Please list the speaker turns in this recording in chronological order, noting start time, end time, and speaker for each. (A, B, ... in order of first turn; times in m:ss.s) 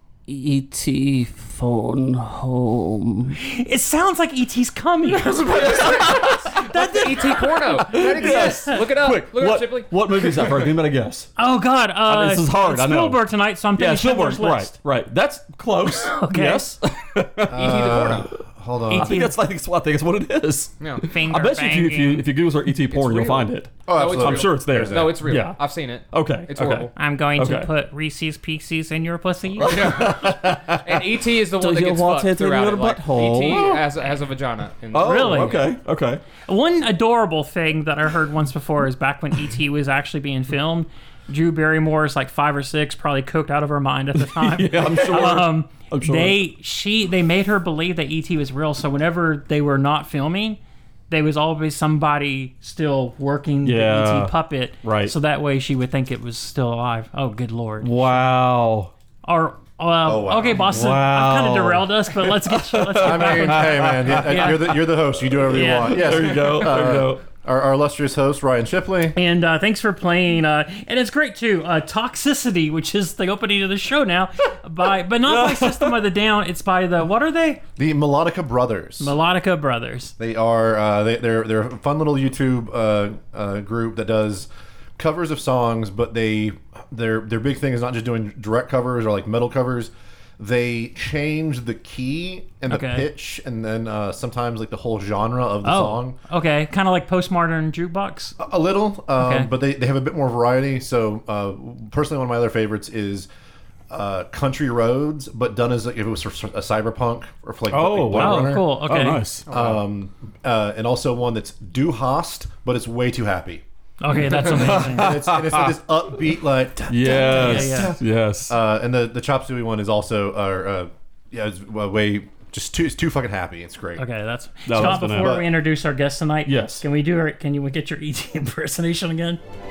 0:00.3-0:03.3 A
0:03.4-0:08.8 B
0:05.5-0:11.3 C
0:06.6-0:10.7 D
0:11.4-0:14.7 B
0:12.0-0:18.2 C
0:16.0-0:16.7 B
0:17.5-0:19.2 E
0:17.5-0:18.3 D
0:18.9-0:19.3 B
0:18.9-0:25.6 C
0:21.0-0:22.3 B
0:22.9-0:26.9 D
0:23.9-0:25.3 E
0:26.1-0:27.7 C
0:26.9-0:30.0 B
0:29.6-0:33.8 C
0:29.6-0:35.7 D
0:34.9-0:36.2 C
0:35.0-0:35.7 B
0:36.4-0:50.6 B
0:44.2-0:46.4 C
0:51.1-0:57.9 B
0:53.6-0:55.1 C
0:57.8-0:58.9 C
0:59.2-1:04.8 B
1:00.0-1:00.8 E
1:00.7-1:04.8 C
1:03.0-1:09.2 E
1:05.4-1:07.2 C
1:05.5-1:06.1 B
1:09.1-1:17.6 B
1:15.2-1:16.0 C
1:17.8-1:19.2 E
1:19.0-1:20.1 B
1:20.2-1:36.2 E
1:32.7-1:33.1 B
1:35.6-1:38.4 B
1:38.4-1:43.3 E
1:39.2-1:39.5 B
1:43.9-1:48.7 E
1:47.7-1:49.4 C
1:48.1-1:49.2 B
1:49.4-1:49.8 D
1:49.5-1:53.6 E
1:54.0-1:55.2 B
1:54.3-2:04.0 E
1:54.3-1:55.7 C
1:56.9-1:58.5 C
1:57.1-1:57.9 B
2:04.0-2:09.4 B
2:04.6-2:05.4 C
2:04.7-2:05.5 E
2:06.4-2:06.8 C